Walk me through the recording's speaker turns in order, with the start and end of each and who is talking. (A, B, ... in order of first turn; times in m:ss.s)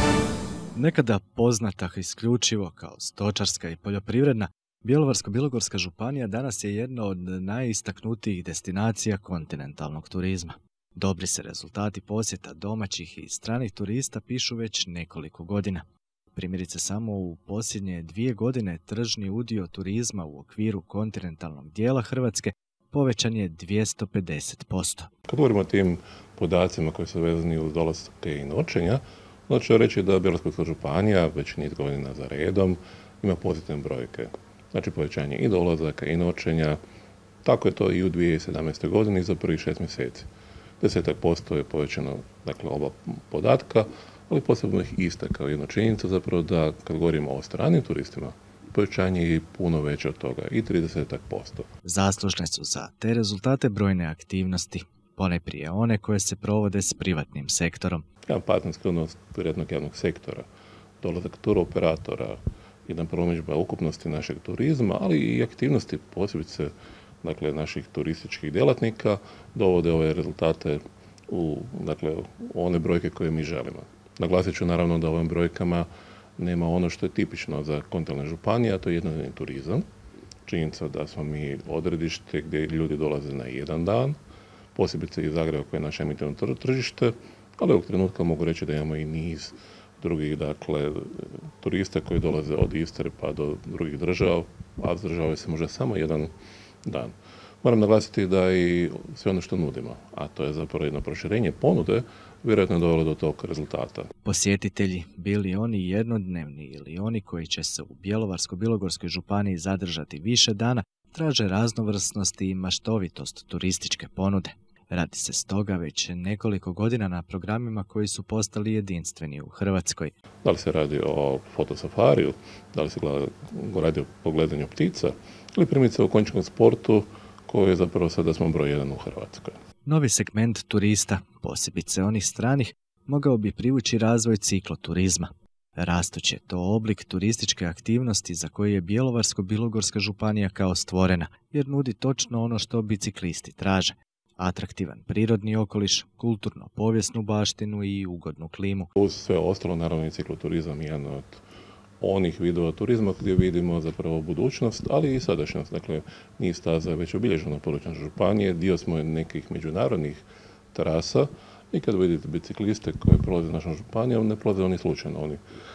0:00.8-0:25.1 A
0:25.3-0:36.8 B
0:37.4-0:40.3 B
0:40.8-0:51.7 B
0:51.8-0:58.0 A
0:58.3-1:00.5 B
1:01.0-1:06.7 B
1:07.2-1:19.8 B
1:20.5-1:24.2 B
1:24.8-1:36.3 B
1:36.8-1:44.1 B
1:44.2-2:00.1 A
2:00.4-2:09.6 B
2:09.9-2:28.9 A
2:29.0-2:31.4 B
2:32.0-2:40.2 B
2:40.7-2:45.4 B